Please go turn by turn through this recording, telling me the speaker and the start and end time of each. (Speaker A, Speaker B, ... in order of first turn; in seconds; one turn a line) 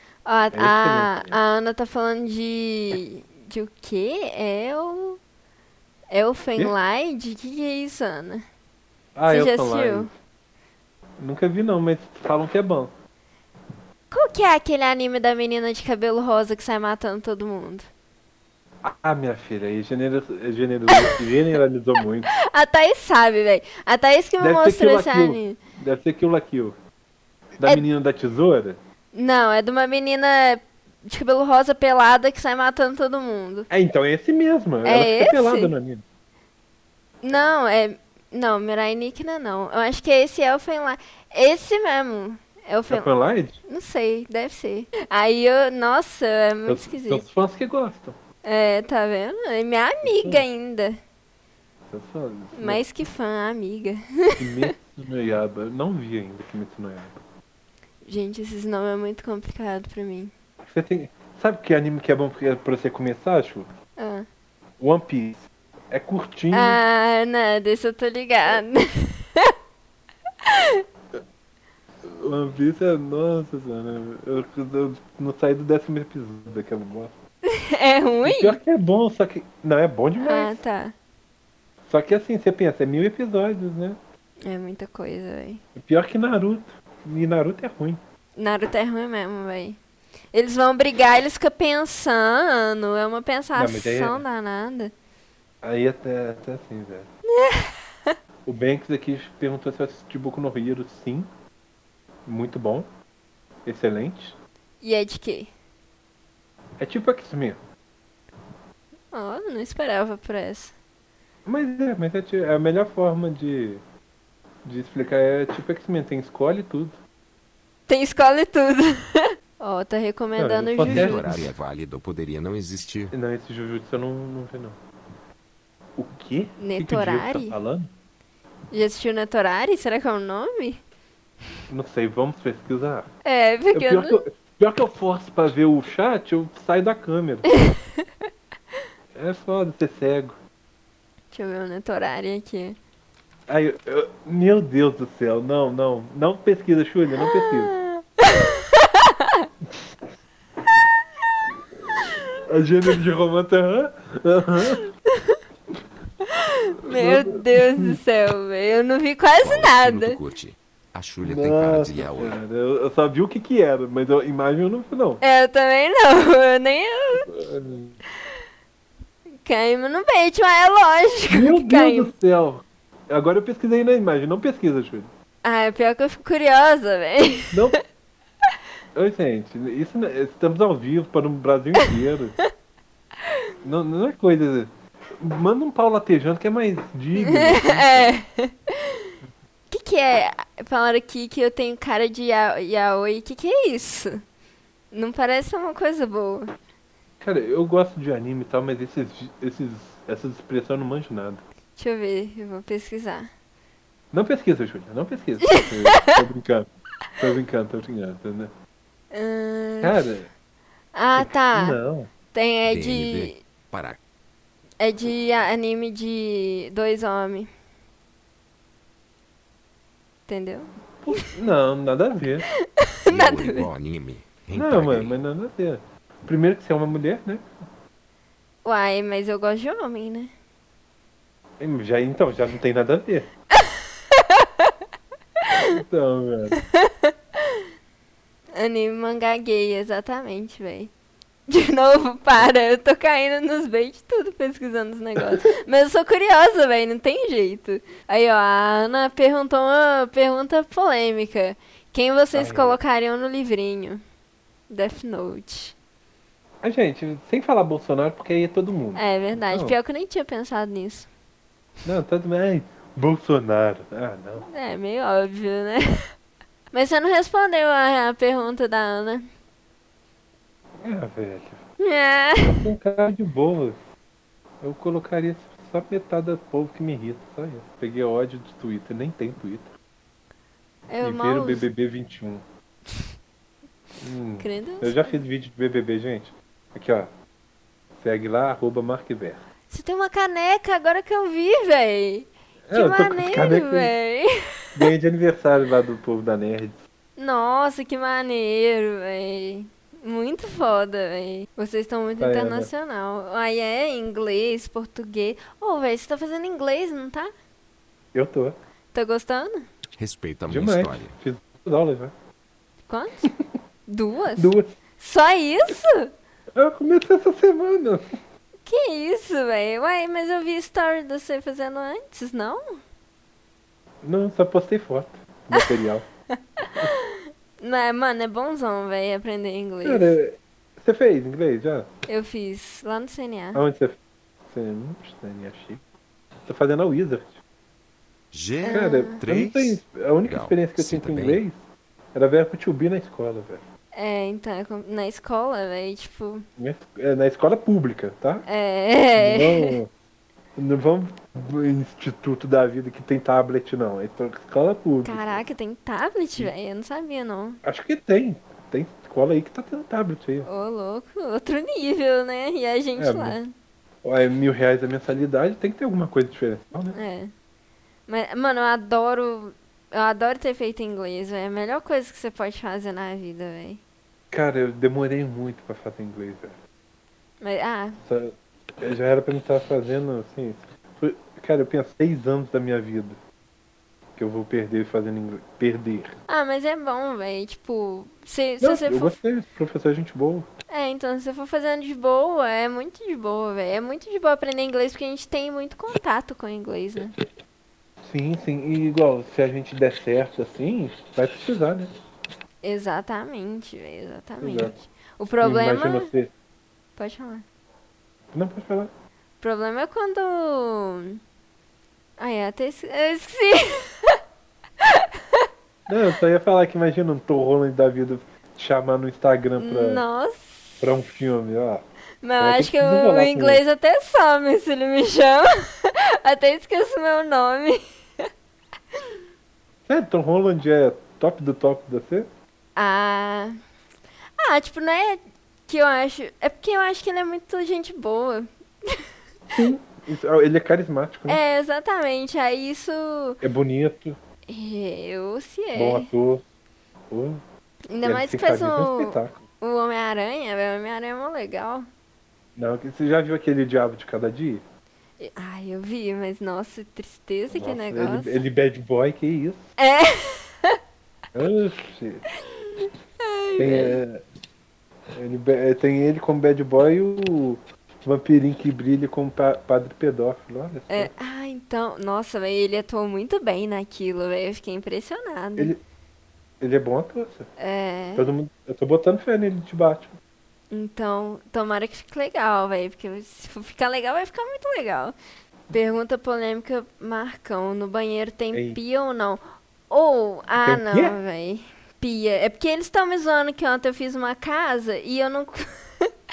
Speaker A: 0.2-5.2
Speaker B: 0.5-1.4
Speaker A: 6.1-8.4
Speaker B: 9.1-10.1
Speaker A: 9.3-10.1
Speaker B: 11.2-12.9
Speaker A: 14.1-17.9
Speaker B: 18.8-22.3
Speaker A: 20.9-21.2
Speaker A: 22.4-25.6
Speaker B: 24.4-26.8
Speaker B: 27.6-28.8
Speaker A: 29.1-33.7
Speaker B: 33.7-36.0
Speaker A: 34.8-35.7
Speaker A: 37.2-43.1
Speaker B: 42.9-43.6
Speaker A: 43.6-47.2
Speaker B: 46.6-48.1
Speaker A: 48.4-51.0
Speaker B: 50.0-50.4
Speaker B: 51.9-52.8
Speaker A: 52.5-54.7
Speaker B: 54.4-57.2
Speaker A: 58.0-60.3
Speaker B: 60.6-63.7
Speaker A: 64.0-64.2
Speaker B: 64.8-66.8
Speaker A: 66.5-69.5
Speaker A: 70.5-70.8
Speaker B: 72.0-77.1
Speaker A: 77.5-78.6
Speaker B: 78.2-80.6
Speaker A: 80.2-80.9
Speaker B: 81.8-84.0
Speaker A: 84.4-85.6
Speaker B: 85.7-88.0
Speaker A: 88.3-89.8
Speaker A: 90.3-94.9
Speaker B: 93.5-94.2
Speaker B: 95.6-97.1
Speaker A: 97.3-98.1
Speaker B: 98.4-101.3
Speaker B: 102.2-102.9
Speaker B: 103.6-104.4
Speaker A: 104.8-105.5
Speaker B: 106.8-107.6
Speaker A: 109.1-110.7
Speaker B: 111.5-113.8
Speaker B: 114.6-117.0
Speaker A: 117.9-121.4
Speaker B: 120.4-121.5
Speaker C: 120.8-123.1
Speaker B: 123.1-124.8
Speaker B: 126.0-127.9
Speaker A: 126.6-127.6
Speaker A: 128.7-130.8
Speaker B: 131.7-133.1
Speaker A: 133.2-134.2
Speaker B: 133.7-137.5
Speaker A: 137.5-137.8
Speaker B: 139.1-140.4
Speaker A: 141.3-142.8
Speaker B: 143.5-147.8
Speaker A: 147.3-149.4
Speaker B: 152.4-154.9
Speaker A: 155.1-155.4
Speaker A: 156.2-160.2
Speaker B: 156.9-158.0
Speaker C: 159.4-162.4
Speaker B: 161.2-165.2
Speaker A: 165.2-167.3
Speaker B: 167.2-168.0
Speaker A: 169.4-172.1
Speaker B: 171.3-175.1
Speaker A: 175.4-177.7
Speaker B: 177.5-177.8
Speaker B: 178.9-182.3
Speaker B: 183.6-188.2
Speaker A: 187.2-189.0
Speaker A: 189.7-194.2
Speaker A: 194.9-196.5
Speaker B: 197.2-201.4
Speaker A: 201.8-203.3
Speaker B: 204.1-208.5
Speaker A: 205.5-206.1
Speaker A: 209.1-210.1
Speaker B: 209.8-210.3
Speaker A: 210.9-211.8
Speaker B: 211.1-212.1
Speaker A: 212.3-213.4
Speaker C: 212.7-214.0
Speaker A: 214.8-217.5
Speaker A: 220.3-220.7
Speaker B: 221.0-222.5
Speaker A: 222.6-223.7
Speaker C: 223.1-225.1
Speaker B: 224.5-227.6
Speaker A: 228.6-230.3
Speaker B: 231.6-233.3
Speaker A: 233.7-234.7
Speaker B: 235.6-236.6
Speaker A: 236.8-237.1
Speaker A: 238.5-240.9
Speaker A: 241.5-254.0
Speaker B: 252.3-252.8
Speaker A: 254.7-255.7
Speaker B: 256.6-259.8
Speaker A: 258.9-261.1
Speaker B: 261.8-264.5
Speaker A: 264.4-266.1
Speaker A: 266.7-269.3
Speaker B: 270.8-271.6
Speaker A: 271.8-272.6
Speaker B: 272.4-273.8
Speaker B: 274.6-279.7
Speaker A: 280.9-281.6
Speaker B: 281.0-282.4
Speaker B: 284.0-287.1
Speaker A: 284.4-285.2
Speaker B: 287.9-289.4
Speaker A: 289.7-294.3
Speaker B: 292.7-293.9
Speaker B: 294.7-296.8
Speaker A: 297.2-307.3
Speaker B: 302.2-302.7
Speaker B: 308.1-308.6
Speaker A: 308.9-309.6
Speaker C: 310.0-311.1
Speaker B: 310.5-312.1
Speaker A: 312.9-313.3
Speaker A: 313.9-316.1
Speaker B: 314.4-314.7
Speaker B: 316.5-318.1
Speaker A: 318.6-322.8
Speaker B: 324.0-326.1
Speaker A: 326.6-330.1
Speaker B: 329.8-331.9
Speaker A: 332.1-333.6
Speaker B: 333.5-335.8
Speaker B: 336.4-337.4
Speaker C: 338.3-341.4
Speaker A: 338.6-339.2
Speaker B: 338.7-341.6
Speaker B: 342.1-343.7
Speaker A: 343.9-346.4
Speaker B: 346.6-348.4
Speaker A: 348.5-349.8
Speaker B: 349.1-349.9
Speaker B: 350.6-355.4
Speaker A: 355.0-357.6
Speaker B: 357.6-360.5
Speaker A: 360.4-363.5
Speaker B: 362.9-363.4
Speaker B: 364.0-367.0
Speaker A: 366.9-367.3
Speaker A: 368.1-373.8
Speaker B: 374.3-376.6
Speaker A: 377.4-378.0
Speaker B: 378.0-383.2
Speaker B: 384.1-386.2
Speaker A: 386.3-389.2
Speaker B: 388.6-390.5
Speaker A: 390.7-397.1
Speaker B: 398.0-401.9
Speaker A: 402.6-406.1
Speaker B: 404.4-404.8
Speaker B: 405.4-406.3
Speaker A: 407.0-407.4
Speaker B: 408.3-408.9
Speaker A: 409.4-411.2
Speaker A: 412.2-414.1
Speaker A: 414.8-415.4
Speaker B: 415.9-420.0
Speaker A: 419.6-420.7
Speaker B: 420.8-421.9
Speaker A: 422.2-428.3
Speaker B: 422.4-423.6
Speaker B: 429.9-432.3
Speaker A: 432.8-433.6
Speaker A: 434.4-439.6
Speaker B: 439.6-441.4
Speaker A: 441.3-443.4
Speaker B: 443.4-444.2
Speaker A: 444.5-446.1
Speaker B: 445.7-446.4
Speaker B: 447.1-447.4
Speaker A: 447.9-451.9
Speaker B: 448.0-449.4
Speaker B: 452.6-454.6
Speaker A: 455.2-458.4
Speaker B: 457.5-459.7
Speaker A: 459.8-460.8
Speaker B: 461.3-462.3
Speaker A: 463.2-464.0
Speaker B: 463.6-464.2
Speaker B: 465.1-471.1
Speaker A: 470.9-475.7
Speaker B: 476.6-477.5
Speaker A: 477.6-478.3
Speaker B: 478.1-480.1
Speaker A: 480.7-485.1
Speaker A: 485.7-496.1
Speaker B: 488.5-488.8
Speaker B: 490.6-491.2